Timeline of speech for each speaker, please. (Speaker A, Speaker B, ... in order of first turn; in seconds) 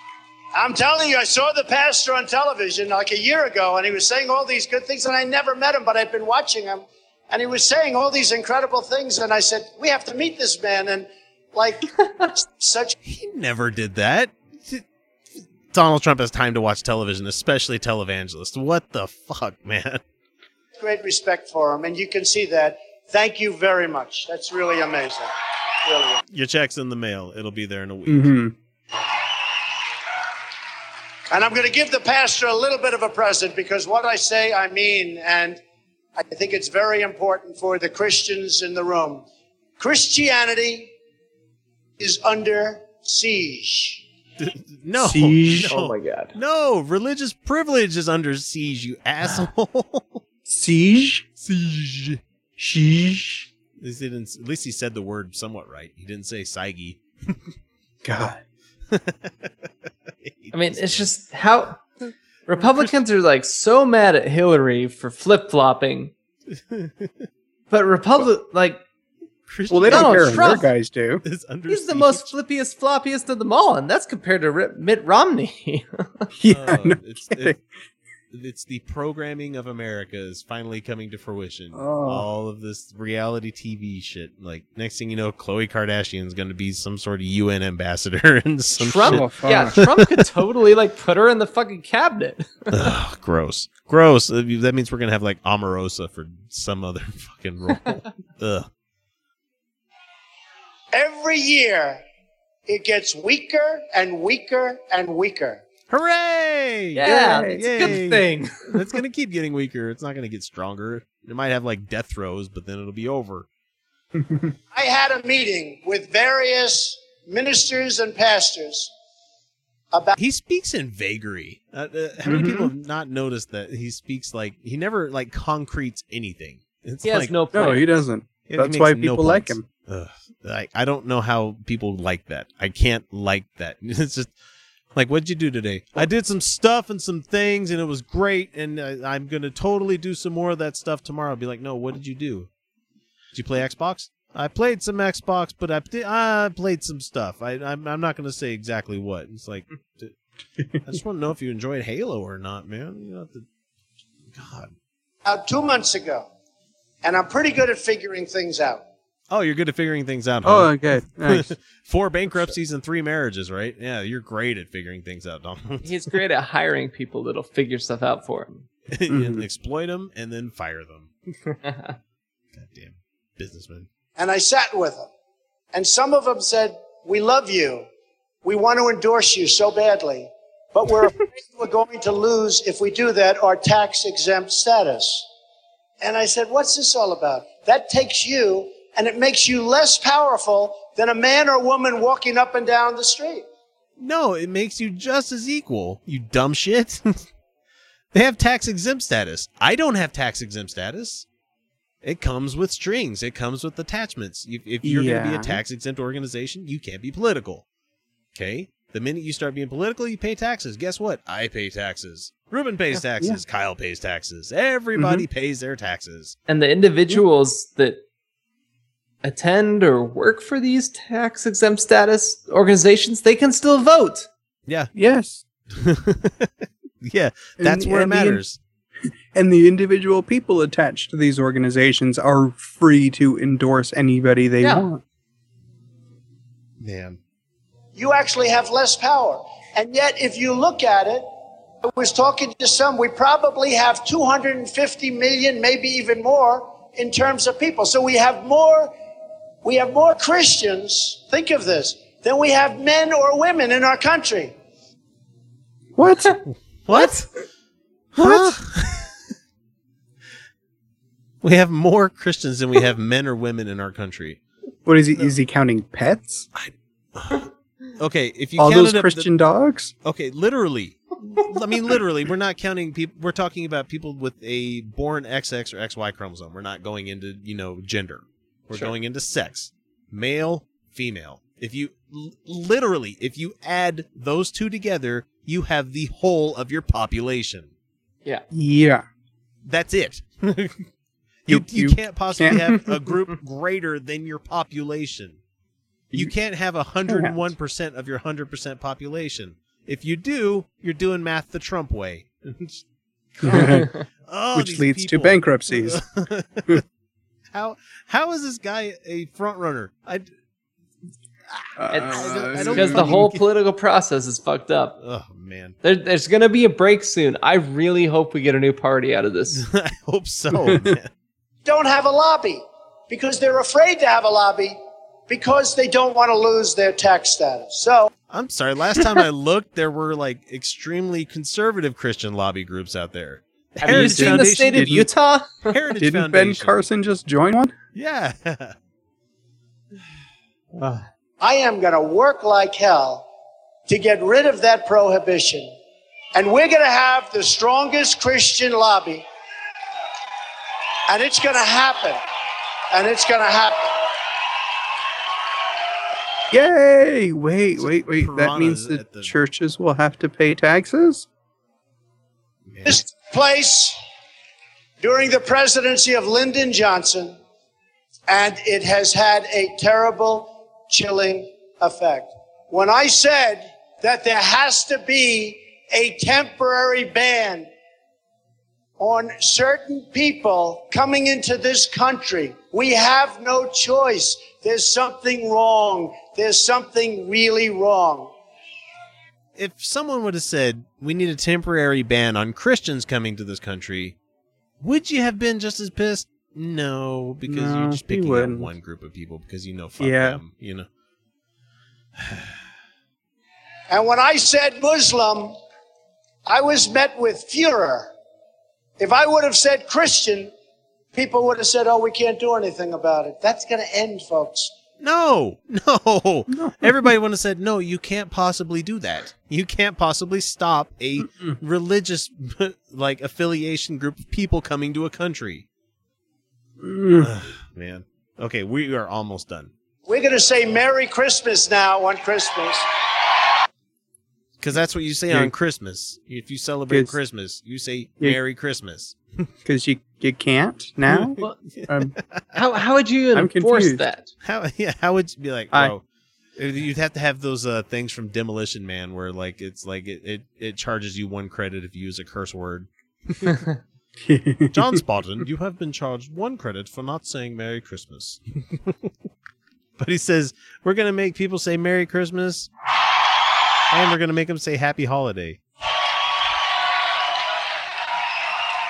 Speaker A: 0.5-13.0, 20.8-25.3, 25.8-26.2, 31.3-35.6, 36.2-39.2, 39.8-40.9, 42.0-44.0, 100.9-102.0, 102.7-105.6, 114.7-118.9, 119.9-120.2, 155.2-156.3, 157.0-158.8, 174.2-175.1, 175.7-177.9, 178.4-185.3, 186.0-193.5, 237.9-241.3, 241.8-248.9, 249.6-254.5, 321.6-324.8, 325.3-328.1, 341.4-343.3, 343.9-345.7, 346.3-349.2, 351.1-352.2, 352.9-354.0, 362.8-364.0, 365.0-367.4, 368.3-377.7, 379.0-388.3, 403.9-405.6, 406.4-408.1, 409.0-410.5, 411.1-414.7, 430.1-432.8
Speaker B: 13.0-14.8, 15.7-20.0, 26.3-28.4, 44.4-50.2, 51.4-52.2, 53.8-57.4, 58.9-59.5, 60.2-61.1, 66.5-67.2, 69.5-70.7, 71.2-72.3, 76.5-77.5, 78.3-90.2, 92.7-98.7, 105.9-113.5, 120.2-127.3, 128.5-134.3, 134.9-142.5, 143.3-150.1, 150.8-153.4, 154.3-154.7, 159.3-165.9, 168.9-171.1, 172.5-173.9, 194.0-197.2, 198.1-201.2, 202.0-207.6, 208.3-216.3, 225.7-226.5, 227.0-228.6, 236.8-237.2, 256.8-257.3, 258.1-259.1, 261.4-264.4, 266.5-269.3, 270.0-287.7, 289.6-290.9, 291.4-295.4, 296.1-302.8, 303.3-306.8, 307.5-310.3, 311.5-313.4, 315.0-315.8, 319.5-321.1, 328.3-335.0, 335.6-336.9, 337.9-338.7, 358.1-359.4, 362.7-363.0, 389.6-394.1, 394.8-400.9, 415.0-425.6, 427.2-429.7, 434.6-439.2, 441.1-442.5, 444.4-446.0, 446.6-453.6, 454.7-459.1, 460.0-462.7, 463.9-465.6
Speaker C: 28.1-28.5, 45.0-45.7, 50.5-51.3, 52.6-53.5, 58.0-58.4, 69.7-71.2, 76.3-77.6, 81.7-82.2, 89.0-89.8, 107.0-108.0, 114.2-114.5, 122.2-122.7, 127.5-129.6, 160.4-161.5, 169.1-169.4, 204.8-205.6, 214.9-215.2, 224.9-225.4, 227.6-228.4, 229.3-235.0, 255.9-256.4, 258.2-258.5, 264.9-266.5, 268.6-269.9, 288.5-289.0, 291.5-293.2, 297.1-297.5, 303.4-303.9, 304.5-306.0, 311.8-313.2, 320.6-321.0, 333.9-335.1, 336.0-337.7, 356.5-361.2, 397.4-398.7, 400.0-400.4, 416.5-417.0, 426.8-427.3, 436.9-437.1, 439.6-442.1, 443.3-444.0, 454.2-455.0
Speaker D: 45.7-46.3, 60.5-61.8, 62.5-66.1, 67.7-68.8, 69.9-70.7, 71.7-76.1, 88.8-92.7, 107.0-108.7, 127.0-127.8, 165.8-168.7, 171.6-171.9, 216.5-218.0, 219.2-224.3, 234.6-234.9, 311.9-315.0, 315.8-319.6, 333.8-335.7, 442.5-444.3